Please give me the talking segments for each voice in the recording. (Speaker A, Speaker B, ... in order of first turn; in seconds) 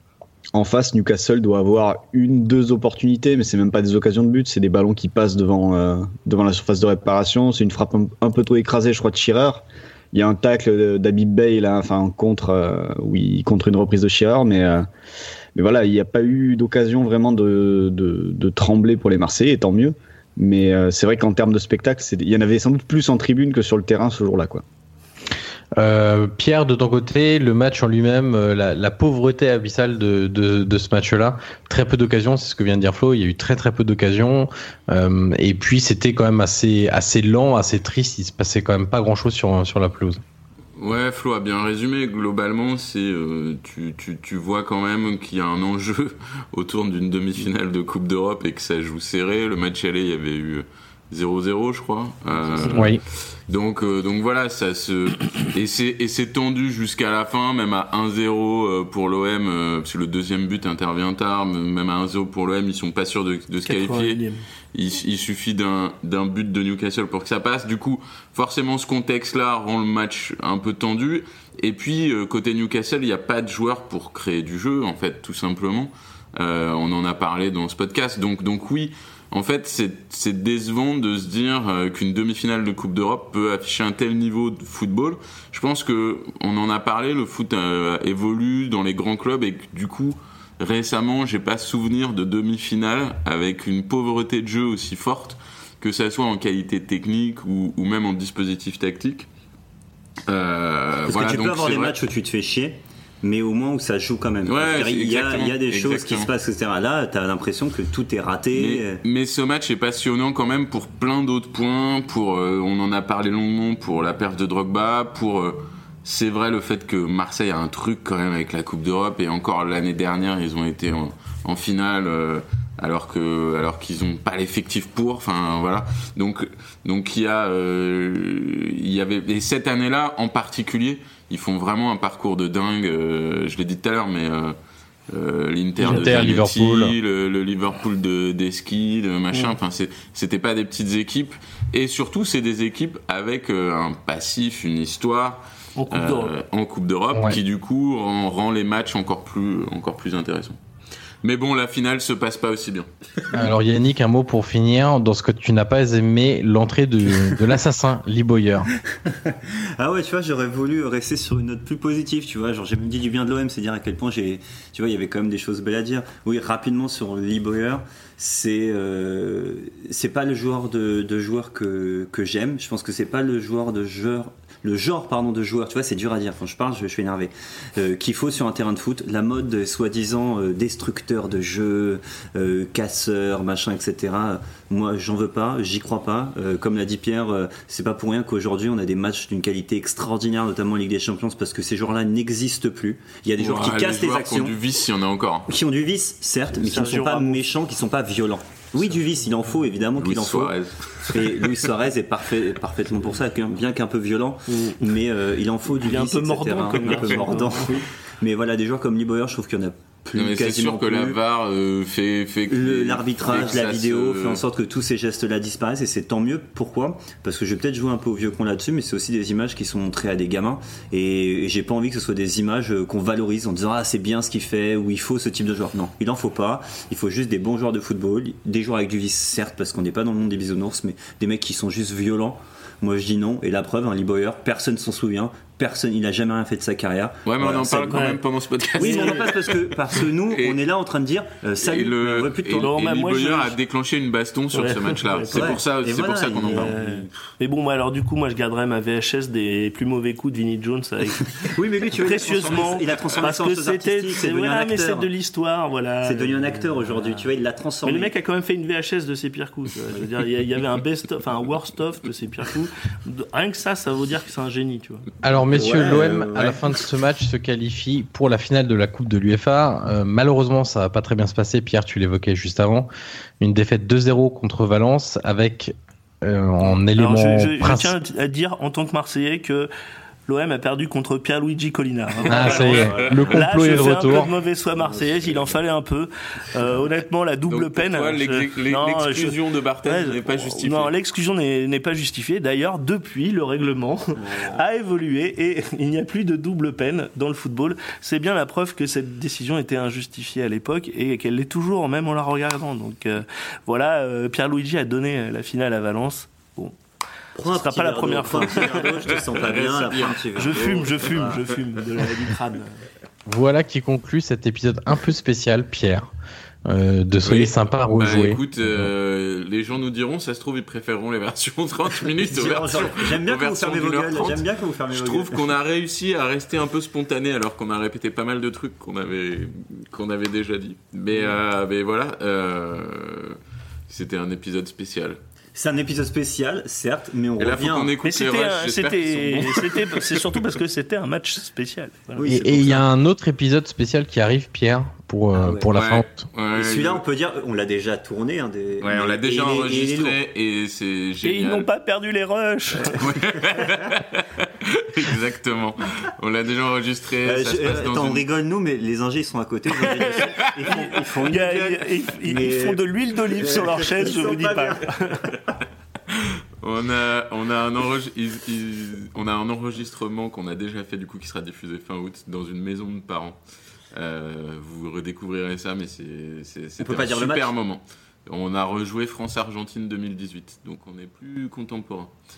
Speaker A: 0.5-14.9, 15.6-24.6
Speaker B: 25.8-40.2, 52.7-53.0, 135.8-136.9, 147.1-147.4, 153.3-158.7, 265.2-277.9, 282.3-284.3, 313.3-316.1, 316.7-318.9, 342.3-346.3
Speaker C: 40.8-64.2, 64.7-99.3, 100.3-102.0, 104.5-106.3, 108.5-134.6, 135.1-150.6, 151.2-152.9, 193.4-195.5, 200.0-201.6, 210.2-214.4, 237.3-240.6, 241.6-246.8, 287.5-290.9, 309.1-311.4, 317.3-333.4, 333.9-335.2, 337.4-340.3, 345.7-347.0, 348.8-351.7, 352.9-358.3, 366.1-373.4, 373.9-382.1
Speaker D: 63.6-64.4, 145.8-146.3, 196.5-197.5, 204.5-204.9, 205.8-207.8, 237.9-238.2, 238.8-239.2, 242.6-243.6, 244.5-245.6, 246.5-256.6, 257.8-265.1, 276.9-279.7, 280.3-306.8, 307.4-308.7, 310.4-312.8, 338.0-342.8, 351.2-353.6, 359.9-365.2
Speaker E: 101.1-109.0, 159.1-194.6, 195.5-211.2, 212.5-238.1, 238.8-242.7, 245.3-247.1, 251.5-255.1, 256.0-258.1, 265.5-266.7, 282.3-283.0, 284.8-285.4, 294.2-294.5, 307.4-311.3, 322.3-325.4, 335.6-337.9, 342.2-342.8, 345.4-345.7, 346.5-350.2, 357.2-365.3, 376.8-377.5